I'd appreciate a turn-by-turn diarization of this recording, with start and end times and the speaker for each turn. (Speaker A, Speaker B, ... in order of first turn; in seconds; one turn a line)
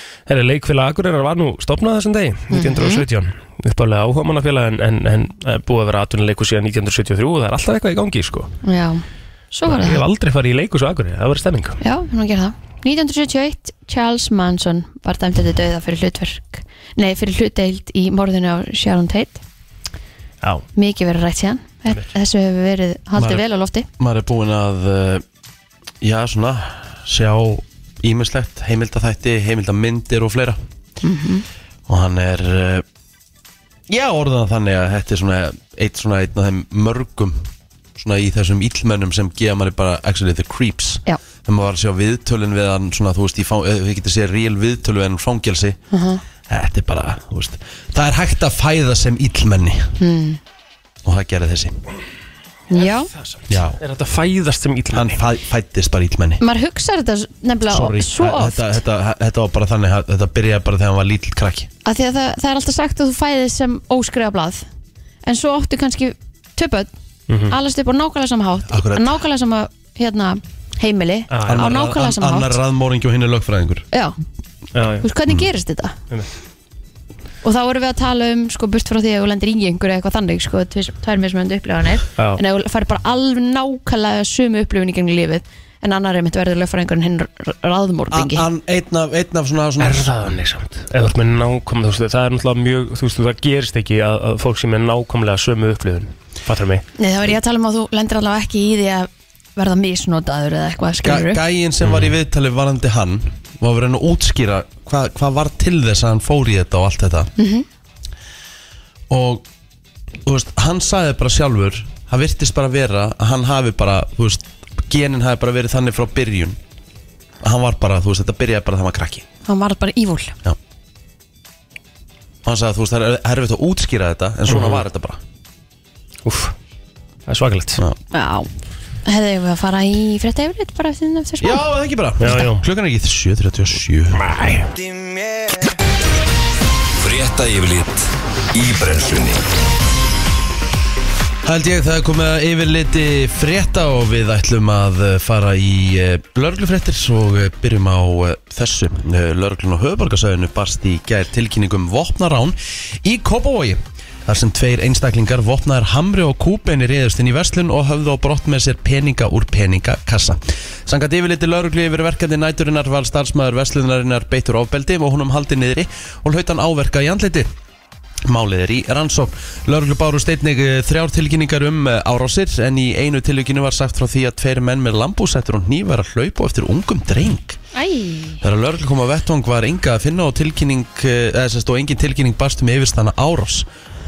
Speaker A: 0.3-8.5
Speaker B: 2.5-3.0
Speaker B: 8.6-10.0
Speaker A: 9.7-11.8
Speaker B: 11.8-19.4
Speaker B: 20.7-23.9
Speaker C: 24.0-25.2
Speaker C: 26.0-30.6
Speaker B: 31.0-31.4
Speaker C: 31.9-32.8
Speaker C: 33.9-45.8
Speaker B: 45.9-46.2
Speaker C: 46.5-49.9
Speaker B: 50.0-50.4
Speaker C: 51.0-51.8
Speaker B: 52.7-53.1
Speaker A: 52.8-55.2
Speaker C: 53.5-53.8
Speaker C: 54.9-56.4
Speaker B: 56.4-58.8
Speaker C: 57.7-61.7
Speaker B: 61.8-64.7
Speaker B: 65.2-66.9
Speaker A: 67.3-67.5
Speaker B: 67.5-72.6
Speaker C: 68.7-69.1
Speaker A: 71.3-71.8
Speaker C: 71.5-73.8
Speaker B: 73.9-74.2
Speaker A: 74.7-75.1
Speaker B: 75.0-76.0
Speaker B: 77.4-88.5
Speaker C: 88.1-90.2
Speaker A: 89.8-96.8
Speaker B: 97.0-101.4
Speaker C: 101.0-107.3
Speaker A: 101.8-102.1
Speaker B: 107.4-107.7
Speaker C: 109.1-109.4
Speaker C: 110.2-116.6
Speaker C: 117.4-119.2
Speaker B: 119.4-120.3
Speaker C: 122.4-125.2
Speaker A: 124.5-124.8
Speaker A: 126.2-126.5
Speaker A: 127.3-127.8
Speaker B: 128.1-128.5
Speaker B: 129.0-131.6
Speaker C: 131.4-134.2
Speaker A: 132.2-132.6
Speaker A: 134.2-134.7
Speaker D: 137.0-139.4
Speaker C: 141.4-167.5
Speaker C: 168.2-177.6
Speaker B: 177.7-178.4
Speaker C: 178.4-183.7